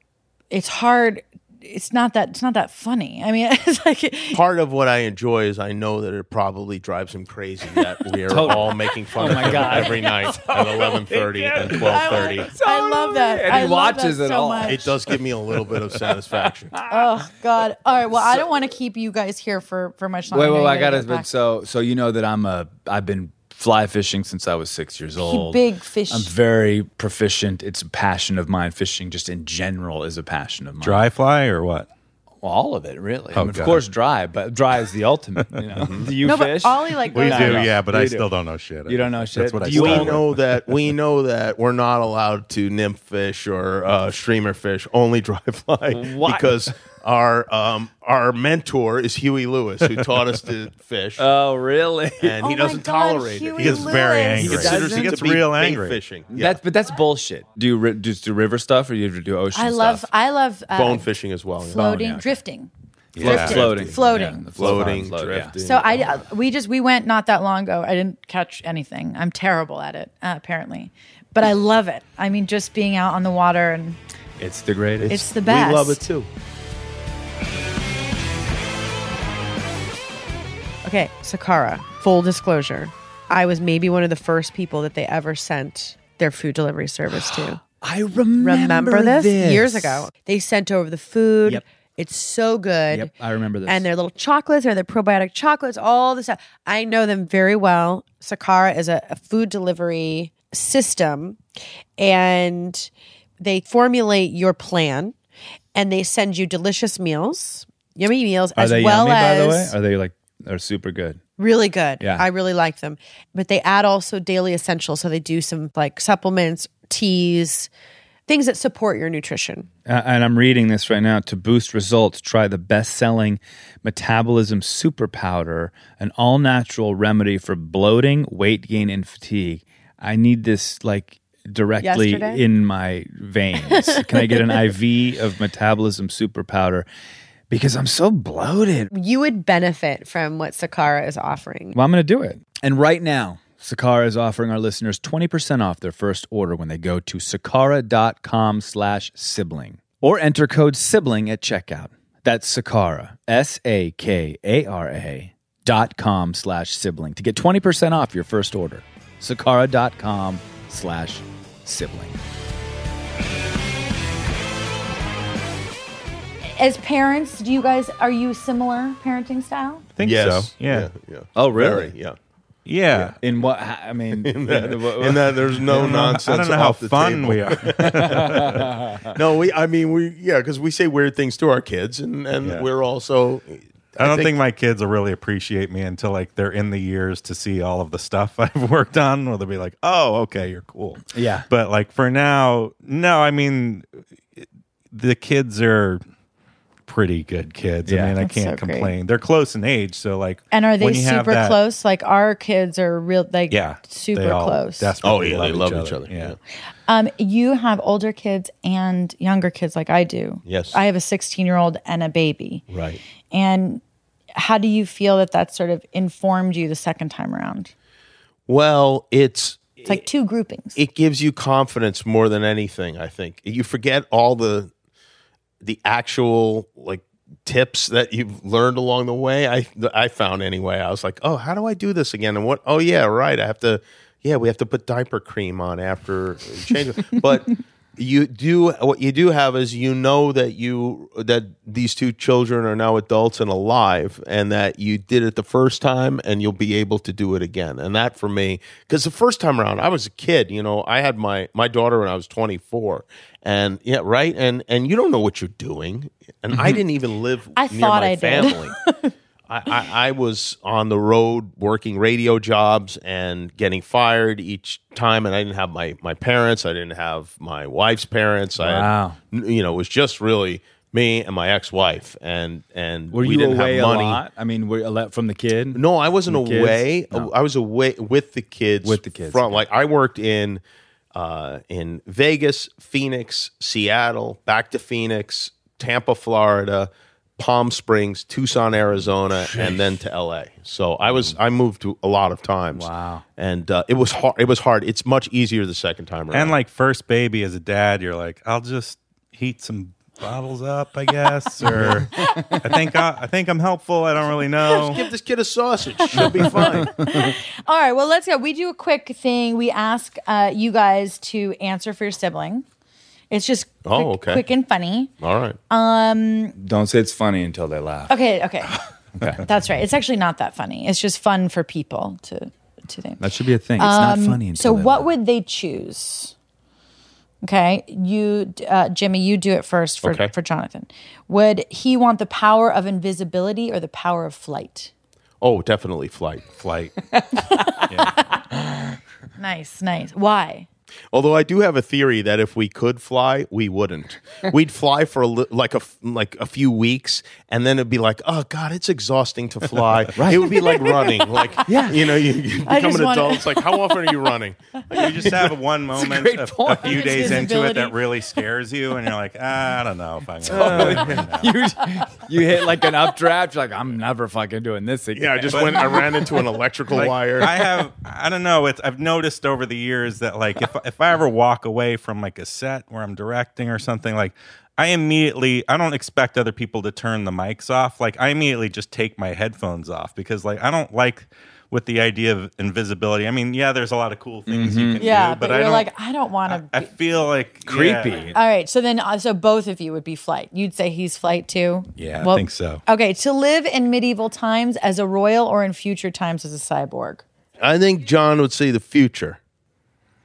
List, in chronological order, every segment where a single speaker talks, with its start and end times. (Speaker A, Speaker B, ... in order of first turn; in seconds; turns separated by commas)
Speaker A: 0.5-4.4, Speaker B: 4.3-12.5, Speaker C: 8.3-15.0, Speaker A: 11.8-14.8, Speaker B: 14.7-16.7, Speaker A: 16.9-21.3, Speaker C: 20.3-31.0, Speaker A: 25.2-26.3, Speaker D: 30.8-31.9, Speaker C: 32.4-38.3, Speaker D: 33.3-33.8, Speaker B: 35.8-36.1, Speaker A: 36.2-37.7, Speaker D: 37.1-40.4, Speaker C: 38.9-40.2, Speaker B: 39.7-51.2, Speaker C: 45.9-46.6, Speaker C: 51.2-52.4, Speaker B: 52.2-56.6, Speaker A: 52.4-54.8, Speaker D: 53.6-56.0, Speaker C: 54.4-55.1, Speaker C: 56.3-60.0, Speaker A: 59.5-62.7, Speaker B: 60.7-62.0, Speaker C: 61.8-62.4, Speaker D: 63.1-63.6, Speaker C: 63.2-65.5, Speaker B: 63.2-66.2, Speaker A: 63.3-64.9, Speaker A: 65.6-74.0, Speaker C: 74.4-75.1, Speaker B: 75.0-76.3, Speaker A: 75.1-76.1, Speaker E: 80.8-87.6, Speaker C: 87.1-90.1, Speaker E: 88.4-93.1, Speaker C: 92.9-93.9, Speaker E: 93.7-101.4, Speaker E: 102.0-105.1, Speaker E: 105.8-109.8, Speaker C: 108.6-111.2, Speaker E: 111.4-117.7, Speaker C: 112.0-112.3, Speaker E: 118.3-119.7, Speaker C: 119.9-136.9, Speaker E: 131.8-132.4, Speaker E: 133.7-134.5, Speaker C: 137.5-138.9, Speaker E: 138.9-141.8, Speaker C: 141.7-162.2, Speaker A: 166.6-169.9, Speaker D: 170.0-170.9, Speaker B: 170.0-172.2, Speaker C: 171.3-171.9, Speaker D: 172.7-173.2, Speaker C: 173.2-175.8, Speaker B: 174.2-184.3, Speaker D: 175.7-178.6, Speaker C: 177.8-179.1, Speaker D: 184.0-193.9, Speaker C: 191.1-191.5, Speaker D: 194.4-196.0, Speaker D: 196.9-201.6, Speaker C: 197.8-198.2, Speaker A: 198.2-198.9, Speaker A: 200.5-204.9, Speaker D: 203.5-206.3, Speaker B: 205.0-206.4, Speaker A: 206.9-212.7, Speaker B: 210.4-210.8, Speaker B: 212.7-213.0, Speaker A: 213.3-213.8, Speaker A: 214.3-217.7, Speaker B: 218.5-220.0, Speaker A: 219.9-220.8, Speaker B: 220.8-224.7, Speaker B: 225.6-258.8, Speaker A: 257.6-259.1, Speaker B: 259.5-274.2, Speaker C: 268.6-269.2, Speaker C: 273.1-277.3, Speaker B: 275.7-280.6, Speaker C: 278.8-279.6, Speaker B: 281.1-296.6, Speaker C: 289.4-289.7, Speaker C: 292.7-293.2, Speaker D: 296.3-305.0, Speaker C: 301.8-302.5, Speaker A: 302.3-302.6, Speaker B: 304.7-307.3, Speaker A: 306.1-312.6, Speaker A: 313.3-315.1, Speaker B: 313.9-314.4, Speaker B: 315.2-315.6, Speaker A: 315.7-316.6, Speaker C: 316.6-318.1, Speaker A: 318.1-318.8, Speaker C: 319.2-319.4, Speaker A: 319.3-323.2, Speaker C: 323.2-325.1, Speaker A: 323.8-326.3, Speaker A: 327.4-334.9, Speaker B: 330.0-330.3, Speaker B: 335.4-336.4, Speaker D: 336.6-336.9, Speaker C: 337.1-337.9, Speaker D: 337.9-338.2, Speaker A: 339.4-340.7, Speaker B: 341.1-355.5, Speaker C: 350.1-350.5, Speaker A: 350.8-351.4, Speaker C: 351.6-352.0, Speaker A: 352.7-354.3, Speaker D: 354.9-361.6, Speaker C: 355.9-357.5, Speaker A: 356.8-358.1, Speaker C: 360.4-366.1, Speaker B: 360.5-361.3, Speaker B: 365.1-367.8, Speaker D: 365.5-366.0, Speaker D: 366.9-385.9, Speaker C: 384.5-385.0, Speaker A: 385.0-386.9, Speaker D: 386.5-388.3, Speaker C: 387.7-388.4, Speaker A: 388.3-397.2, Speaker D: 392.0-392.8, Speaker B: 397.6-399.4